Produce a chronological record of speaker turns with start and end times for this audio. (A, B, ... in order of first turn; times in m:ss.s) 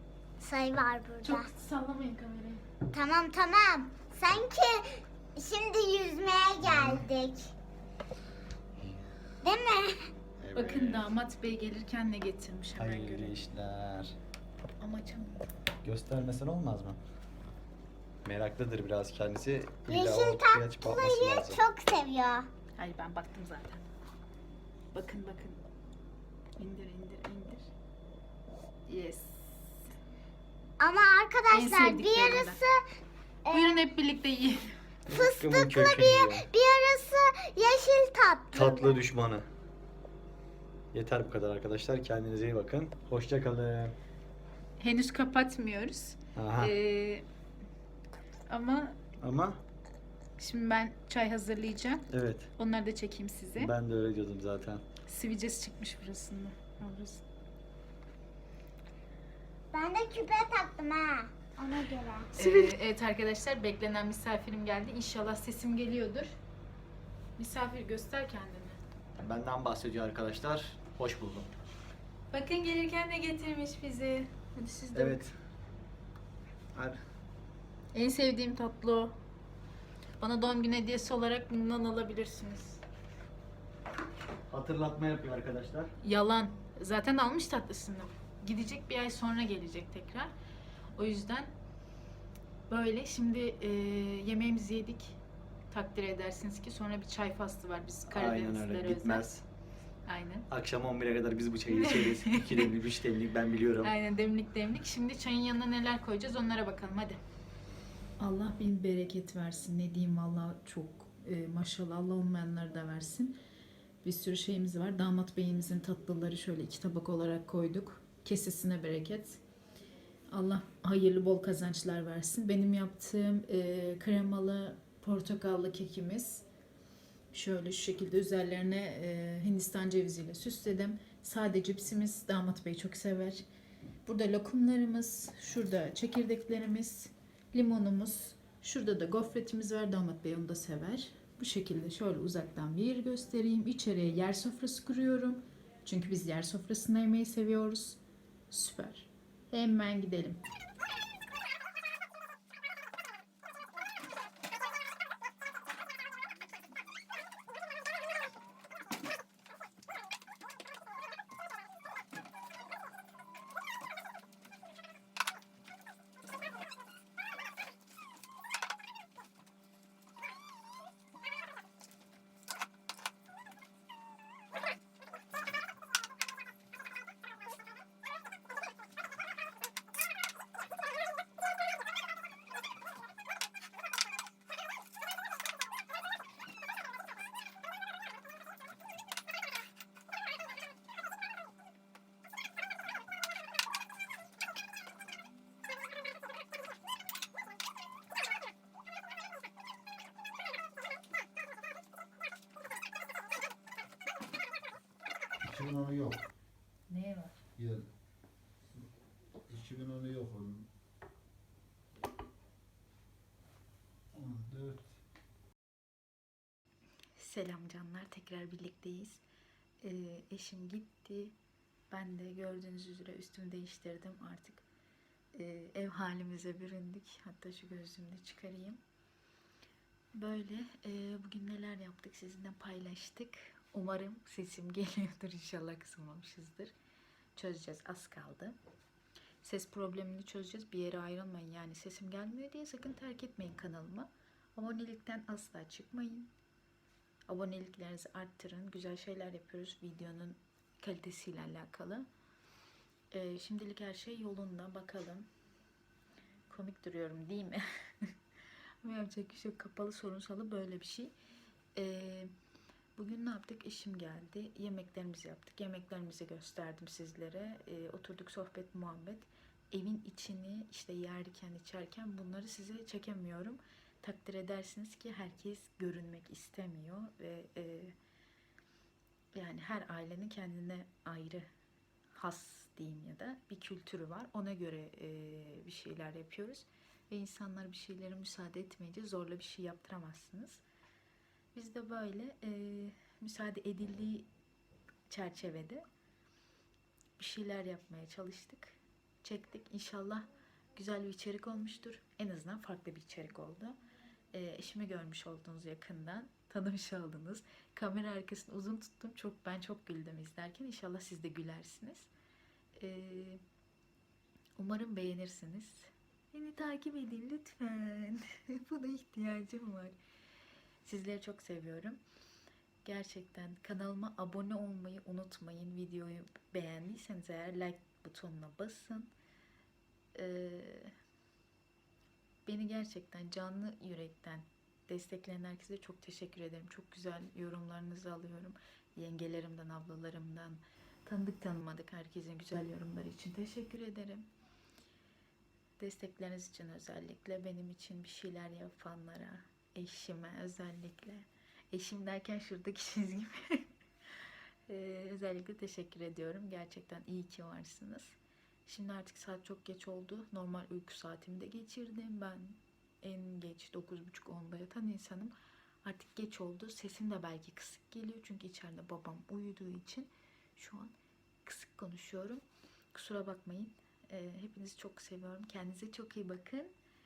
0:00.4-0:01.5 A
0:01.2-0:02.6 B
0:02.9-0:07.5 A
0:06.6-0:07.0 C
0:09.4-0:10.0 A
0:10.4-0:11.1 C
0:10.6-0:13.4 B
0:12.8-0:14.2 C
0:14.8-0:15.5 B
0:15.8-0:17.0 C
0:18.2-0:21.6 C
0:19.9-0:22.5 A
0:22.8-0:23.8 B
0:24.9-0:25.6 B
0:26.6-0:27.7 B
0:28.9-0:29.9 B
0:30.8-0:32.8 A
0:31.5-0:32.6 B
0:33.4-0:33.8 A
0:33.5-0:34.7 B
0:35.1-0:36.5 C
0:35.1-0:39.0 A
0:38.5-0:39.5 C
0:40.9-0:43.9 C
0:44.8-0:47.2 B
0:46.4-0:46.7 C
0:48.5-0:49.0 B
0:49.2-0:49.6 C
0:50.4-0:53.7 B
0:52.1-0:52.5 C
0:53.6-0:54.8 C
0:55.1-0:57.2 B
0:59.7-1:02.7 A
1:02.3-1:06.4 B
1:07.4-1:08.8 B
1:09.2-1:11.5 C
1:12.3-1:15.2 B
1:14.9-1:15.3 C
1:17.9-1:19.2 B
1:20.2-1:22.8 B
1:24.5-1:25.9 C
1:26.0-1:30.3 B
1:31.0-1:31.5 B
1:32.7-1:35.2 B
1:35.7-1:39.3 B
1:38.1-1:39.4 C
1:40.1-1:40.5 B
1:40.5-1:43.9 C
1:41.7-1:42.7 B
1:43.8-1:47.2 B
1:48.2-1:53.4 B
1:54.0-1:59.4 B
2:00.3-2:06.4 B
2:07.3-2:13.4 B
2:14.1-2:28.0 B
2:28.5-2:30.4 B
3:25.4-3:26.3 D
3:26.9-3:27.4 B
3:27.6-3:27.9 D
3:29.5-3:30.7 D
3:34.1-3:34.8 D
3:37.2-3:39.2 B
3:39.8-3:41.4 B
3:41.9-3:44.6 B
3:45.3-3:48.8 B
3:50.2-3:56.7 B
3:57.4-3:58.6 B
3:59.4-4:06.3 B
4:07.3-4:12.1 B
4:13.1-4:15.3 B
4:16.5-4:18.1 B
4:18.8-4:21.1 B
4:21.8-4:22.3 B
4:23.0-4:38.0 B
4:39.4-4:41.5 B
4:42.1-4:50.6 B
4:51.5-4:54.3 B
4:55.1-4:55.8 B
4:57.2-5:03.8 B
5:04.3-5:12.1 B
5:12.8-5:13.4 B
5:14.6-5:20.0 B
5:20.8-5:22.0 B
5:22.8-5:29.1 B
5:30.2-5:30.9 B
5:32.5-5:44.3 B
5:45.8-5:53.6 B
5:54.7-6:10.9 B
6:11.4-6:16.7 B